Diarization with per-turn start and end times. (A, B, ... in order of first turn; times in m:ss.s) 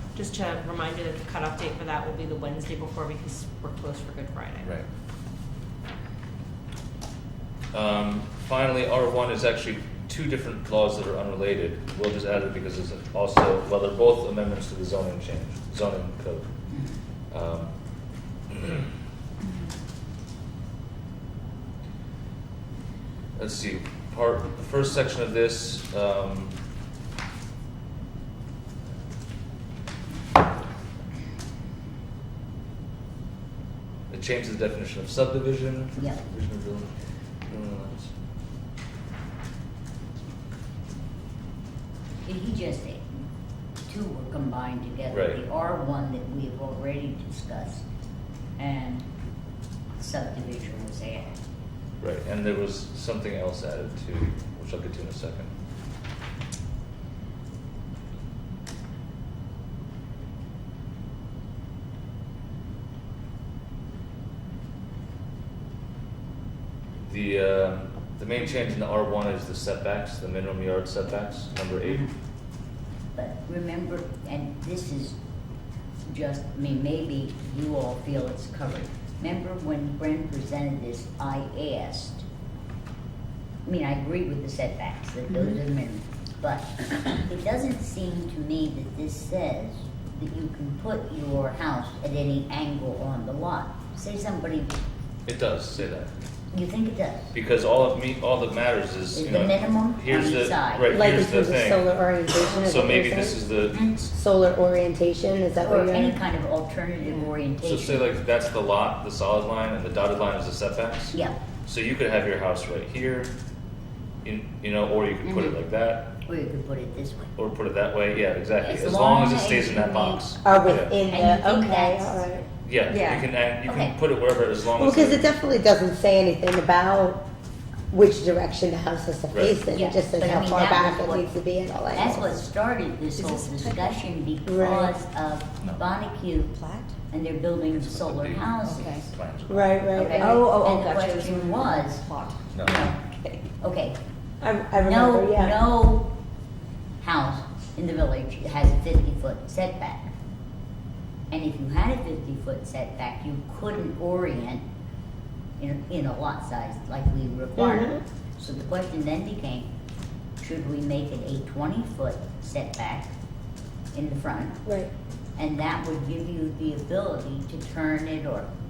0:00.2-0:04.8 A
0:07.7-0:16.5 B
0:17.3-0:17.7 B
0:18.5-0:18.8 B
0:23.4-0:26.5 B
0:34.1-0:36.9 B
0:36.0-0:36.2 C
0:37.5-0:38.1 B
0:42.2-0:43.1 C
0:43.9-0:47.8 C
0:45.1-0:45.4 B
0:48.6-0:49.1 C
0:50.0-0:51.4 C
0:52.0-0:55.5 B
1:07.0-1:12.0 B
1:11.8-1:12.1 C
1:13.1-1:15.2 C
1:16.0-1:22.2 C
1:23.6-1:34.7 C
1:35.2-1:36.1 B
1:36.5-1:37.3 C
1:37.3-1:44.1 B
1:39.1-1:40.9 C
1:40.9-1:43.4 D
1:43.7-1:44.0 C
1:44.1-1:46.2 D
1:45.6-1:48.1 C
1:47.6-1:53.3 B
1:51.1-1:51.4 C
1:54.2-1:56.1 B
1:55.2-1:55.6 C
1:56.2-1:57.3 C
1:57.4-2:00.9 B
1:58.6-2:00.6 C
2:00.4-2:02.4 D
2:01.1-2:02.3 C
2:02.6-2:05.3 B
2:02.9-2:03.3 E
2:03.6-2:04.0 C
2:04.8-2:07.2 D
2:07.9-2:12.4 D
2:09.3-2:09.6 B
2:09.7-2:11.3 C
2:11.9-2:16.5 C
2:13.2-2:14.0 E
2:14.4-2:15.0 D
2:16.5-2:17.0 E
2:17.1-2:19.0 C
2:17.7-2:20.1 B
2:18.6-2:19.1 E
2:19.5-2:20.4 D
2:19.9-2:22.0 C
2:20.1-2:22.4 E
2:22.5-2:22.8 B
2:22.6-2:23.0 C
2:23.6-2:24.0 C
2:24.4-2:25.6 D
2:24.8-2:26.1 C
2:27.0-2:30.0 C
2:31.3-2:34.6 C
2:35.6-2:39.7 C
2:37.6-2:38.0 D
2:40.4-2:43.1 C
2:43.9-2:44.6 C
2:45.4-2:48.5 C